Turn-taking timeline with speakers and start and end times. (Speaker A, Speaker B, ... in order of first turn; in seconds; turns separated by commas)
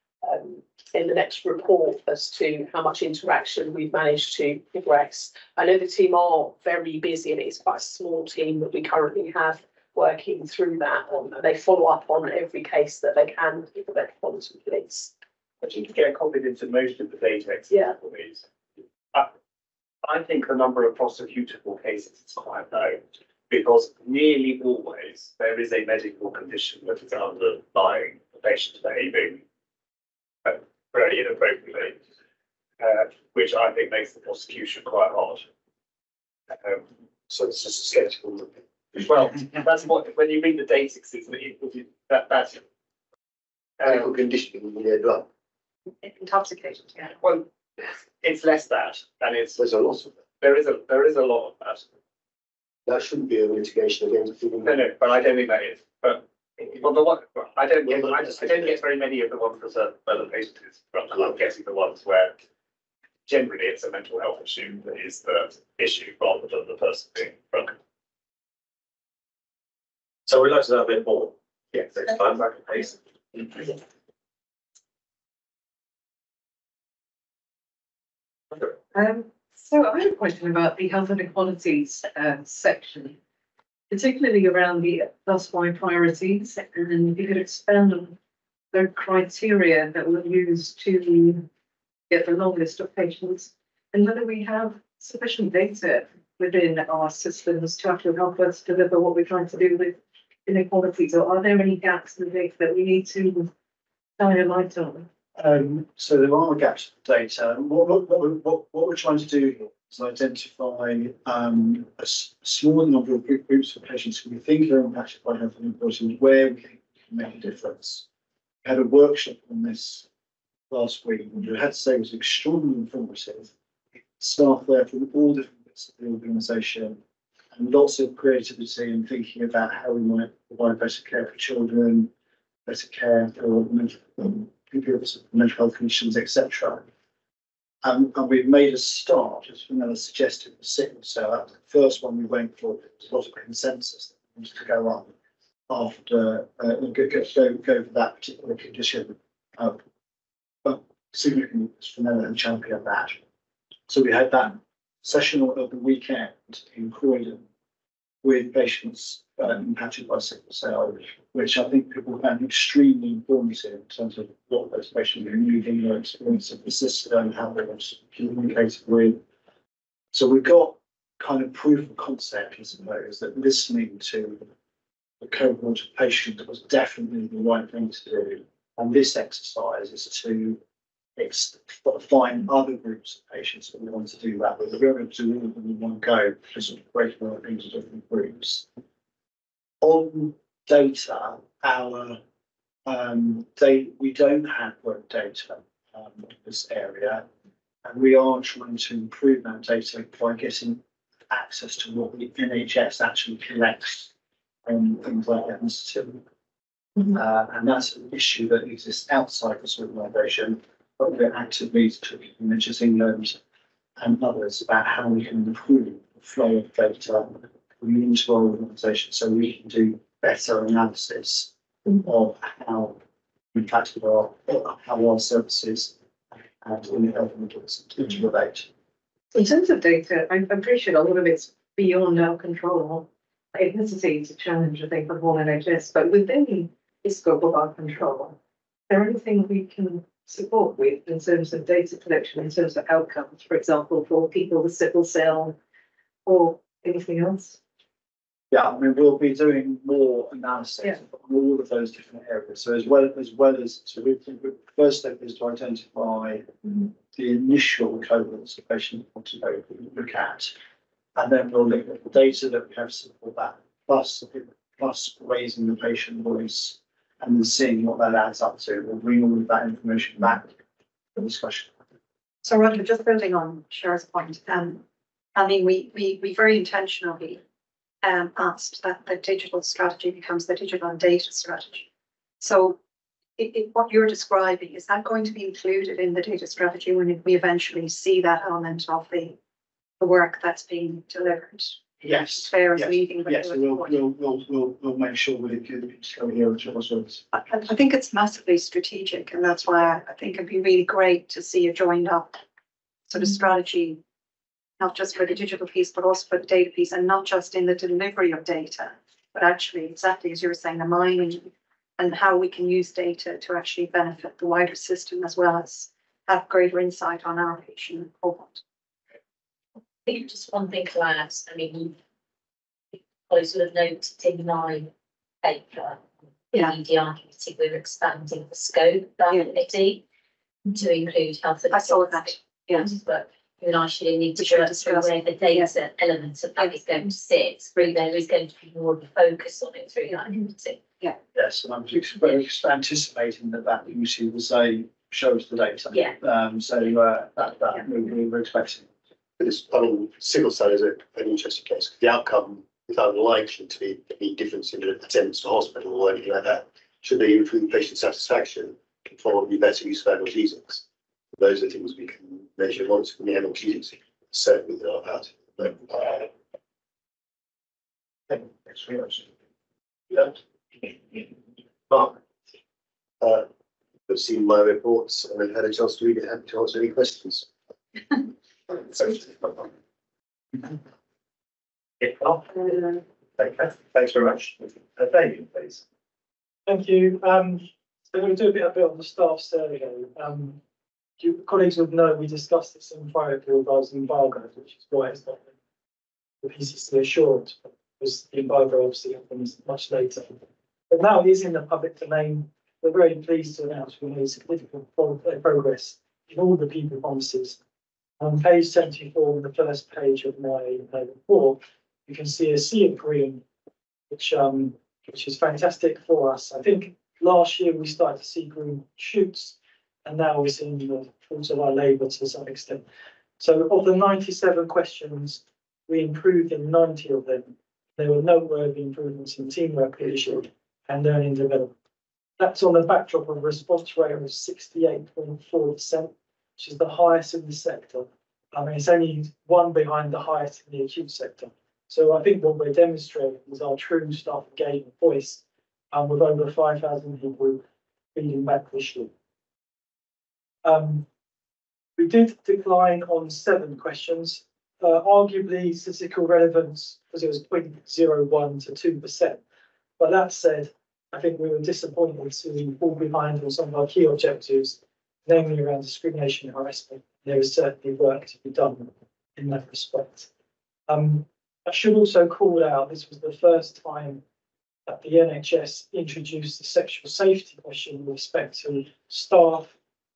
Speaker A: 0.2-15.1, Speaker B: 15.6-18.4, Speaker A: 17.7-17.9, Speaker B: 20.0-29.4, Speaker B: 30.4-32.0, Speaker B: 32.8-35.5, Speaker B: 36.5-38.2, Speaker C: 38.2-38.5, Speaker B: 38.9-42.6, Speaker B: 43.8-44.1, Speaker C: 43.8-45.2, Speaker D: 46.0-47.1, Speaker B: 47.2-47.5, Speaker B: 48.2-49.6, Speaker C: 49.6-50.2, Speaker B: 50.4-51.9, Speaker C: 52.9-54.8, Speaker B: 54.6-62.3, Speaker C: 57.9-58.5, Speaker B: 63.3-67.7, Speaker E: 70.3-71.3, Speaker B: 71.7-72.5, Speaker E: 71.9-72.9, Speaker F: 78.9-83.2, Speaker F: 83.9-88.2, Speaker F: 88.7-91.5, Speaker F: 92.1-103.5, Speaker F: 104.2-105.1, Speaker G: 105.3-118.0, Speaker G: 118.6-120.0, Speaker G: 120.7-123.5, Speaker G: 124.2-127.0, Speaker G: 127.5-132.1, Speaker G: 132.7-136.8, Speaker G: 137.8-145.1, Speaker G: 145.7-149.8, Speaker G: 150.6-153.2, Speaker G: 153.9-157.4, Speaker G: 158.2-169.2, Speaker G: 170.1-174.4, Speaker G: 175.2-180.6, Speaker G: 181.2-188.7, Speaker G: 189.8-192.2, Speaker G: 192.8-197.2, Speaker G: 197.8-204.1, Speaker G: 204.6-206.2, Speaker G: 207.1-213.4, Speaker G: 214.0-223.0, Speaker G: 223.5-225.9, Speaker G: 226.6-228.7, Speaker F: 229.3-238.4, Speaker F: 238.9-245.6, Speaker F: 246.2-247.6, Speaker G: 248.5-260.5, Speaker G: 261.1-270.5, Speaker G: 271.1-271.7, Speaker D: 272.4-274.8, Speaker D: 275.3-277.4, Speaker D: 278.0-281.9, Speaker D: 282.4-282.8, Speaker D: 283.4-289.4, Speaker D: 290.0-293.9, Speaker G: 292.0-297.3, Speaker D: 297.3-302.4, Speaker D: 303.1-304.0, Speaker D: 304.8-318.6, Speaker H: 320.1-322.0, Speaker H: 322.9-324.9, Speaker H: 325.4-330.0, Speaker D: 329.3-329.5, Speaker H: 330.7-340.8, Speaker D: 331.7-332.9, Speaker D: 334.4-335.7, Speaker G: 341.3-348.9, Speaker C: 349.4-360.8, Speaker C: 361.3-366.3, Speaker C: 373.2-373.5, Speaker C: 374.1-377.5, Speaker E: 382.0-382.4, Speaker E: 383.4-385.8, Speaker I: 386.7-390.6, Speaker I: 391.2-395.5, Speaker I: 396.4-400.4, Speaker I: 400.9-407.6, Speaker I: 408.2-413.4, Speaker I: 414.1-422.9, Speaker I: 423.4-431.7, Speaker I: 432.4-447.6, Speaker I: 448.1-449.1, Speaker I: 450.6-451.1, Speaker I: 452.0-459.4, Speaker I: 460.0-470.3, Speaker I: 470.9-474.2, Speaker I: 474.9-479.7